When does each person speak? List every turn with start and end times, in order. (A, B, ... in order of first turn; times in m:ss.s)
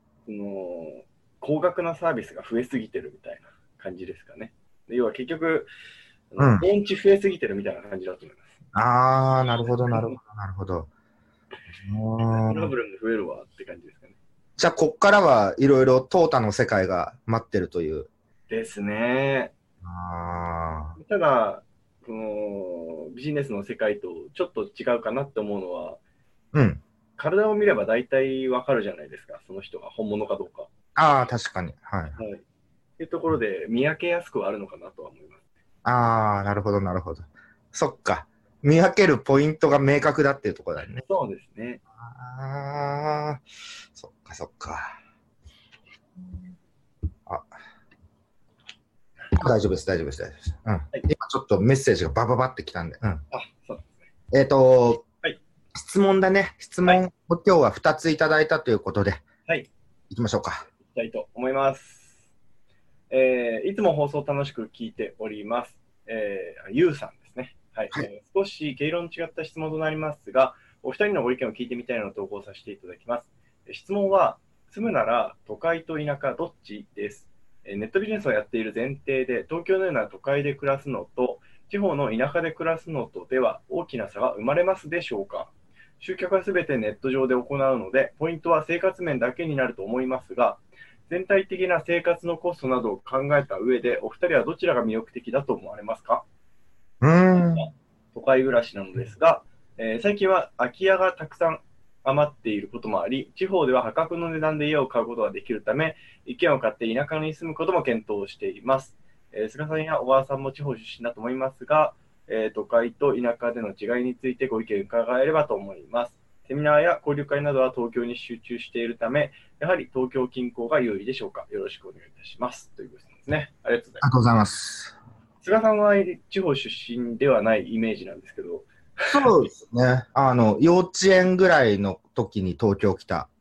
0:00.3-0:05.7 A
0:06.3-0:08.5 A
0:06.4-0:06.7 B
0:08.7-0:10.9 B
0:09.9-0:10.2 A
0:11.9-0:12.7 B
0:12.2-0:14.2 A
0:14.6-0:18.1 B
0:18.5-0:19.5 A
0:19.8-0:21.0 B
0:21.0-0:26.0 A
0:26.5-0:26.8 B
0:27.2-0:30.7 A
0:31.0-0:32.2 B
0:32.2-0:32.4 A
0:33.0-0:35.4 A
0:35.8-0:41.0 B
0:41.0-0:41.8 A
0:42.0-0:43.4 B
0:44.0-0:45.0 B
0:49.3-0:53.2 B
0:53.3-0:54.1 A
0:54.3-0:55.0 B
0:55.7-0:59.2 B
1:00.1-1:00.7 B
1:00.8-1:02.2 A
1:03.1-1:36.2 A
1:37.0-1:37.7 B
1:37.4-2:04.0 A
2:04.0-2:05.0 B
2:05.4-2:09.2 A
2:09.1-2:13.3 B